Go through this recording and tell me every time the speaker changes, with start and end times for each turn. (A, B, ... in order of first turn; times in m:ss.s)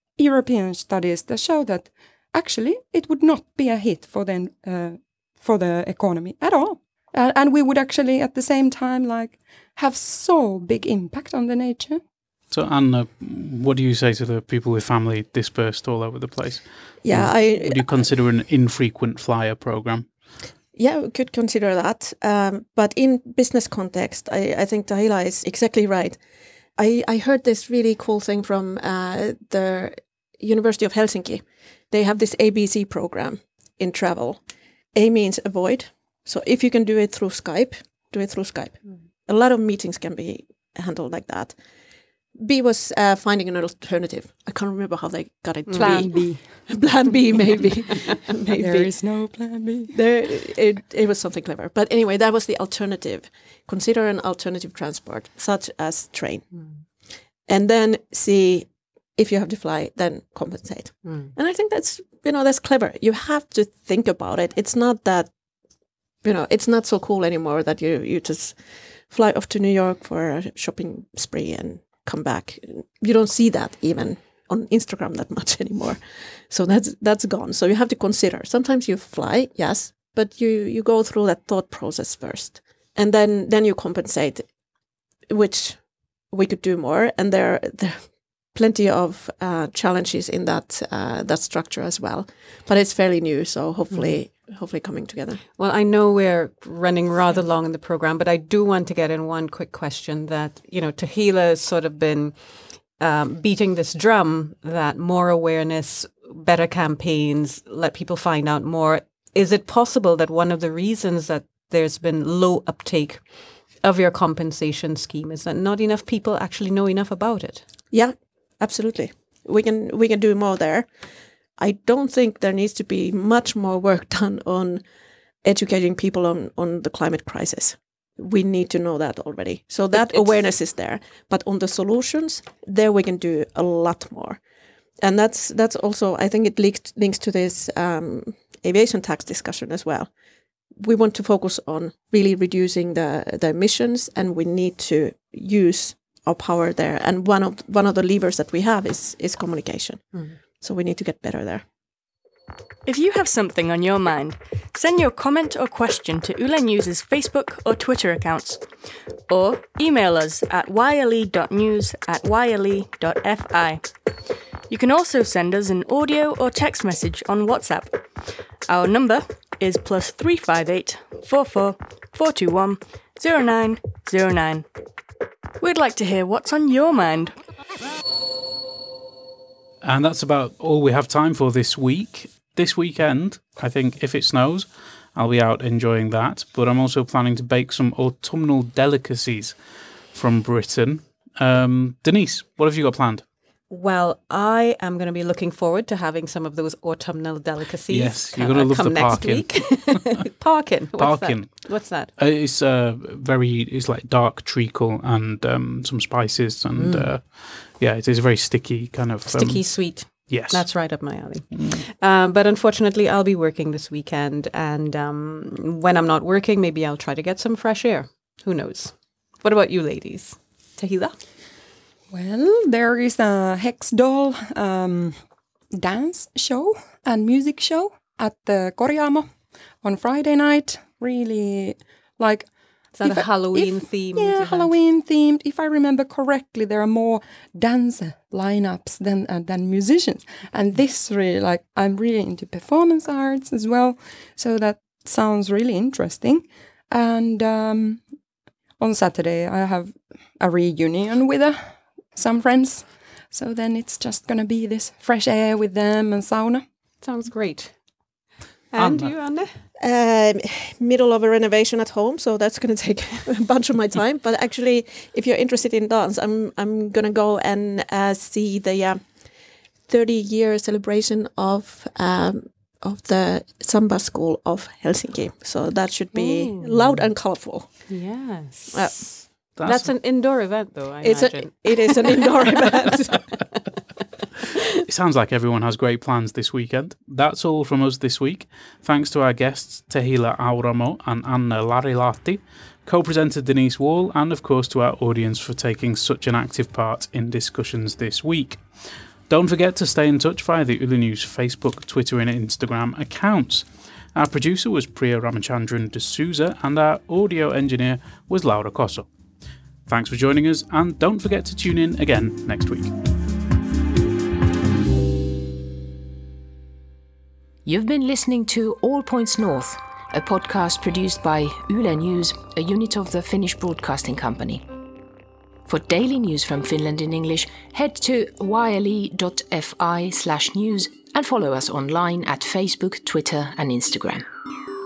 0:00.2-0:12.0 A
0:12.5-0:20.1 B
0:17.0-0:18.1 C
0:20.8-0:26.2 C
0:26.8-0:34.4 C
0:34.9-0:41.6 C
0:42.4-0:48.9 C
0:45.7-0:46.1 D
0:45.8-0:46.4 A
0:48.6-0:50.0 A
0:49.9-0:56.5 C
0:57.5-1:05.3 C
1:01.0-1:01.3 D
1:06.2-1:24.5 C
1:25.3-1:35.4 C
1:33.9-1:34.2 D
1:35.6-1:57.6 D
1:57.9-2:00.9 C
2:01.6-2:04.8 C
2:05.4-2:14.4 C
2:09.9-2:10.2 D
2:15.0-2:20.1 C
2:20.8-2:31.6 C
2:32.8-2:38.7 E
2:39.3-2:43.9 E
2:44.7-2:48.0 E
2:48.6-2:54.7 E
2:55.6-2:57.4 E
2:59.8-3:09.6 B
3:10.1-3:13.2 B
3:13.7-3:22.1 D
3:17.9-3:20.1 B
3:21.0-3:30.9 B
3:26.8-3:27.1 D
3:29.3-3:41.2 D
3:31.5-3:31.8 B
3:42.1-3:45.2 A
3:45.7-3:49.3 A
3:49.8-3:52.5 A
3:53.0-3:54.7 D
3:53.0-4:08.0 A
4:08.8-4:16.6 A
4:17.0-4:17.8 D
4:18.7-4:19.5 D
4:18.8-4:19.1 B
4:19.8-4:29.1 C
4:29.9-4:38.0 C
4:36.1-4:37.0 D
4:37.9-4:43.2 D
4:38.7-4:39.6 C
4:39.6-4:39.9 B
4:41.0-4:43.2 C
4:44.9-5:09.1 B
5:09.9-5:12.9 B
5:17.6-5:24.7 F
5:25.7-5:34.3 F